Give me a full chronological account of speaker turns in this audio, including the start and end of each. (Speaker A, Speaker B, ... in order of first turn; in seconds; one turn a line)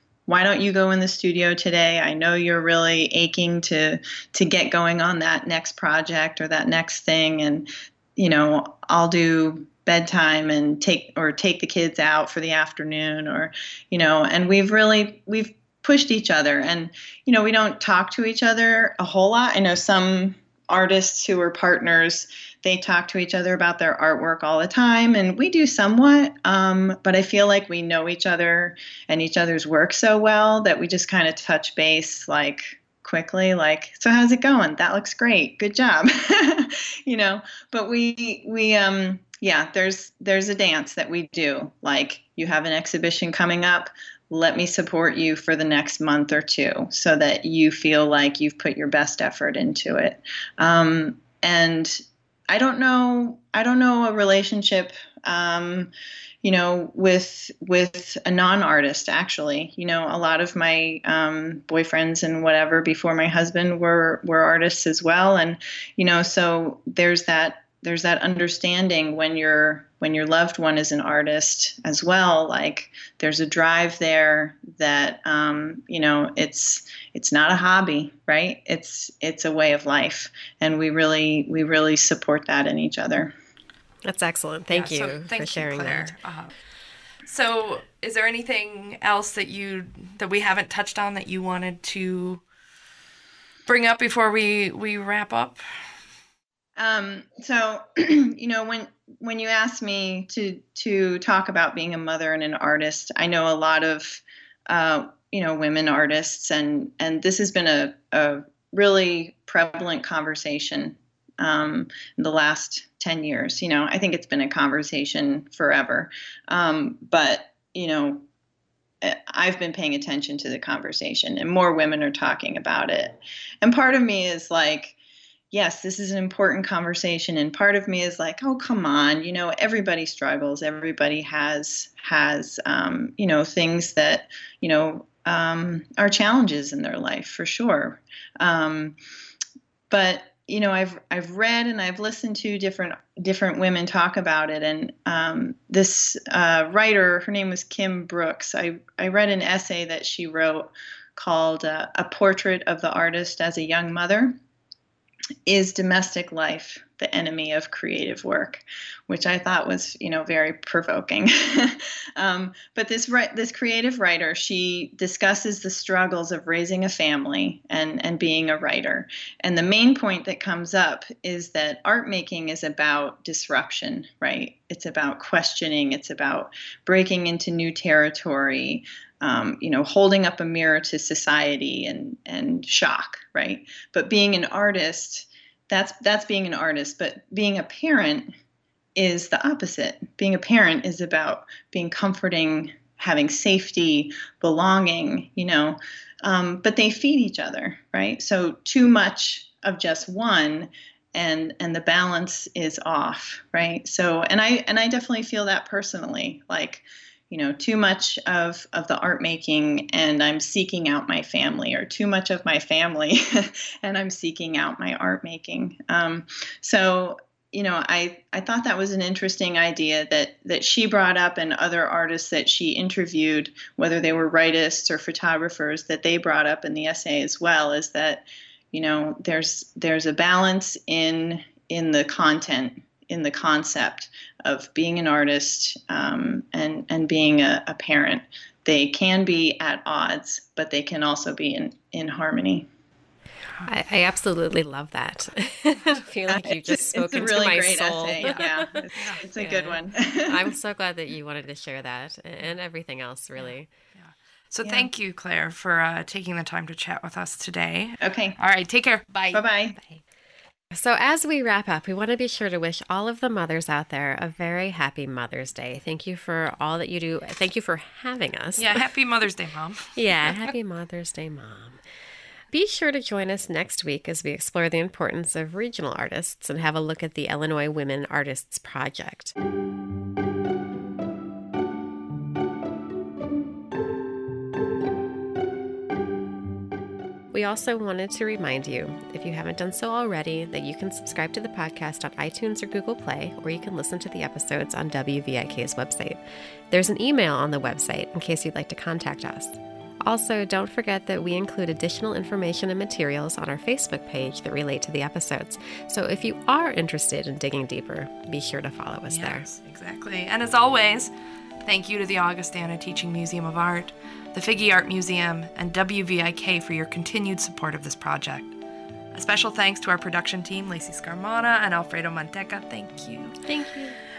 Speaker A: 0.3-55.9
Speaker A: 56.4-83.3
Speaker B: 84.0-86.1
Speaker C: 84.7-86.5
Speaker C: 87.2-92.4
Speaker C: 93.7-95.6
Speaker A: 96.8-118.2
Speaker A: 119.0-125.0
Speaker A: 125.5-138.9
Speaker A: 139.9-154.3
Speaker A: 155.4-188.3
Speaker A: 188.9-242.7
Speaker B: 243.6-253.7
Speaker A: 246.3-250.5
Speaker C: 248.9-249.2
Speaker C: 253.4-259.4
Speaker A: 254.6-254.9
Speaker A: 258.0-258.4
Speaker A: 259.3-259.8
Speaker B: 260.7-268.9
Speaker C: 268.6-270.5
Speaker B: 269.9-271.8
Speaker B: 272.5-279.3
Speaker B: 287.3-309.4
Speaker C: 309.1-311.1
Speaker C: 311.6-318.5
Speaker C: 319.1-323.4
Speaker B: 323.4-324.0